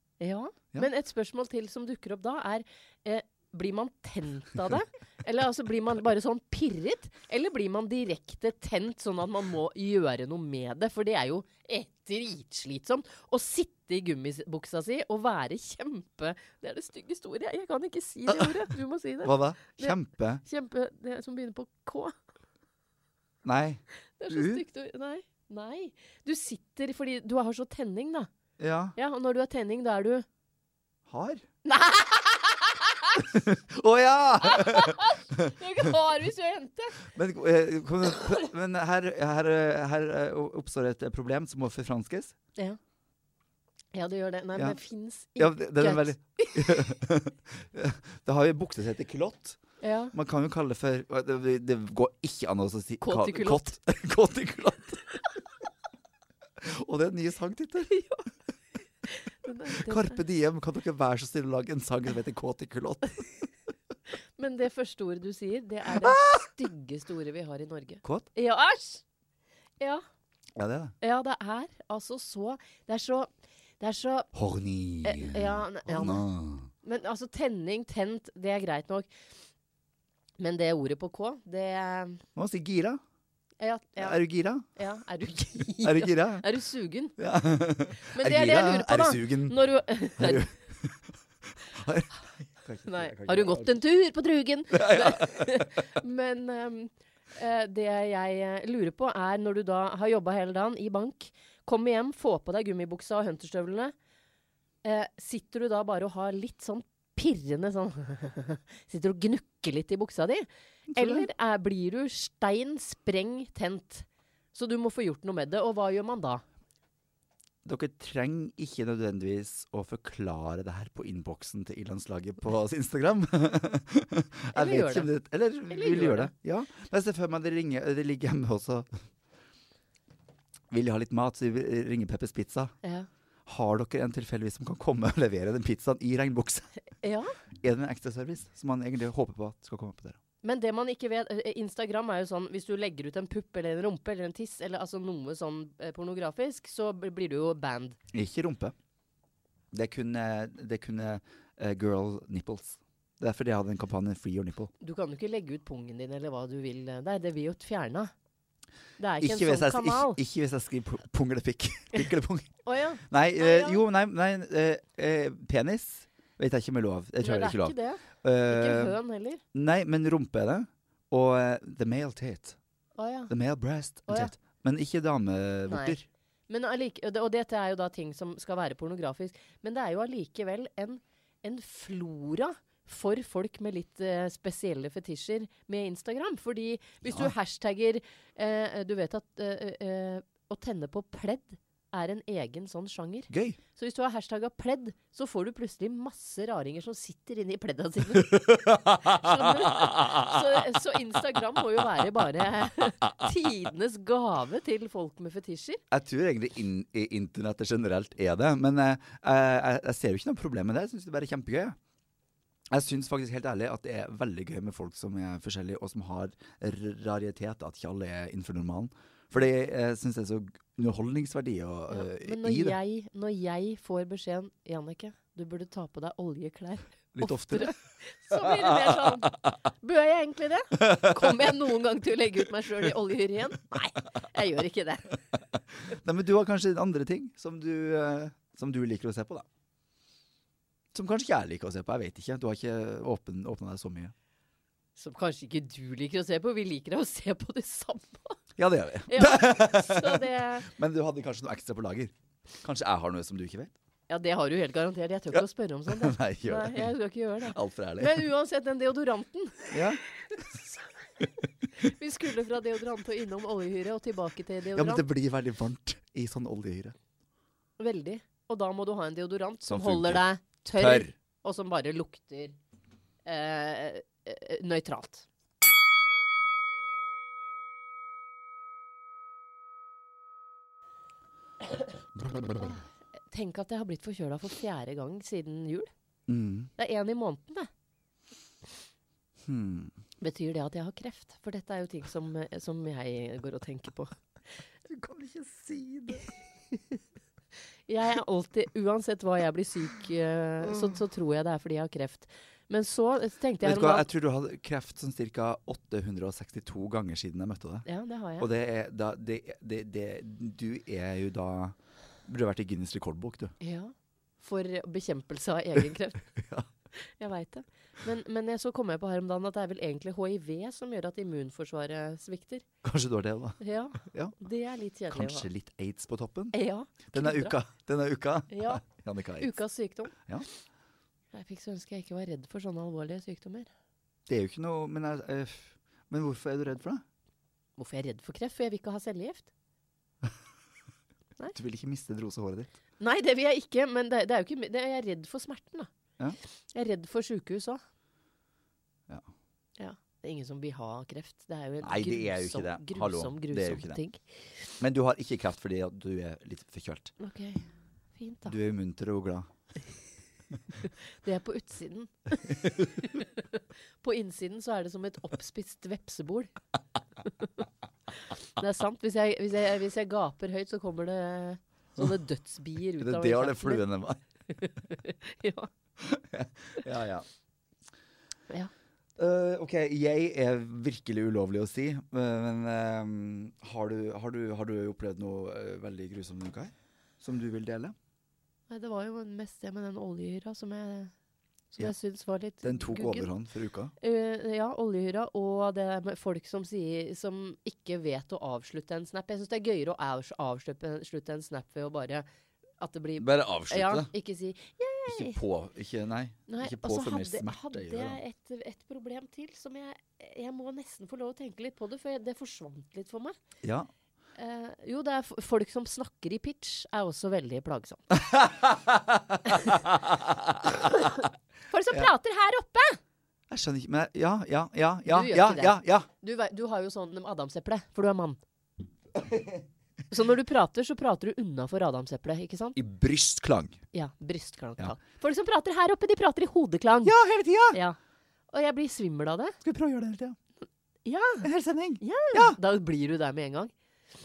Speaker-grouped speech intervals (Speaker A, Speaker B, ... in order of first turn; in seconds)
Speaker A: 0.2-22.1, 24.2-28.3, 28.9-30.2, 31.6-33.2, 34.4-37.0, 43.9-46.9, 49.8-50.1, 53.0-53.7, 57.9-58.3, 59.1-60.2, 64.4-69.0, 71.0-74.3, 75.0-76.3, 76.8-79.1, 80.4-82.2, 83.6-84.2, 84.7-87.2, 88.0-90.5, 92.8-103.9, 104.8-116.4, 124.5-125.1, 125.7-126.3, 137.0-137.3, 140.4-148.0, 154.8-158.1, 159.0-160.2, 162.6-163.8, 167.2-169.4, 173.0-173.3, 174.1-174.3, 175.7-176.0, 176.5-205.8, 221.9-235.2, 245.0-248.4, 249.1-250.7, 254.1-265.0, 267.8-272.6, 273.2-275.2, 282.5-285.9, 286.8-287.7, 290.2-294.2, 297.9-304.1, 307.9-308.5, 313.6-316.3, 316.9-322.6, 323.6-325.5, 326.5-327.6, 328.5-328.8, 329.4-330.1, 331.3-333.7, 337.8-339.5, 343.0-345.9, 346.7-347.8, 349.8-354.2, 357.2-358.5, 361.2-366.5, 368.6-373.8, 374.5-375.7, 388.7-391.1, 391.7-393.3, 394.0-402.2, 402.8-405.4, 406.5-413.4, 414.4-418.0, 420.9-423.0, 425.1-428.4, 430.1-432.8, 433.9-437.1, 437.7-438.0, 438.5-439.6, 441.0-441.5, 442.0-443.7
Speaker B: 18.3-18.7, 19.2-20.4, 23.4-24.6, 28.6-28.9, 31.1-31.4, 33.1-35.9, 37.0-42.3, 45.4-49.6, 50.1-55.0, 56.6-58.0, 59.7-63.5, 65.9-66.5, 68.0-68.3, 70.5-70.9, 74.3-76.7, 82.3-83.0, 84.0-84.7, 85.8-86.5, 87.2-91.1, 91.6-93.8, 94.7-95.7, 110.9-111.3, 117.6-129.0, 130.7-132.7, 133.4-136.7, 137.6-140.2, 148.1-148.7, 149.7-154.7, 159.2-169.0, 169.5-172.6, 173.3-176.1, 187.0-187.3, 193.3-193.6, 198.1-200.4, 205.9-211.8, 212.7-222.8, 227.1-227.8, 228.3-229.5, 230.8-231.6, 235.9-239.5, 240.9-244.1, 248.6-253.7, 255.3-256.9, 257.4-258.2, 259.7-260.0, 264.7-266.9, 269.7-270.2, 270.7-271.1, 282.3-282.7, 286.3-286.7, 289.4-289.9, 294.9-296.3, 300.6-300.9, 303.6-307.9, 308.4-313.5, 316.3-316.7, 322.8-324.4, 325.1-326.6, 327.1-329.6, 330.1-330.4, 334.3-337.0, 341.5-342.7, 351.8-354.0, 354.8-357.1, 358.4-359.5, 373.0-374.2, 376.0-377.2, 379.2-387.9, 392.6-393.9, 403.2-404.1, 405.1-408.2, 413.6-413.9, 418.1-420.9, 423.5-426.1, 429.1-429.6, 432.8-433.8, 437.0-437.8, 439.6-440.4, 441.4-442.6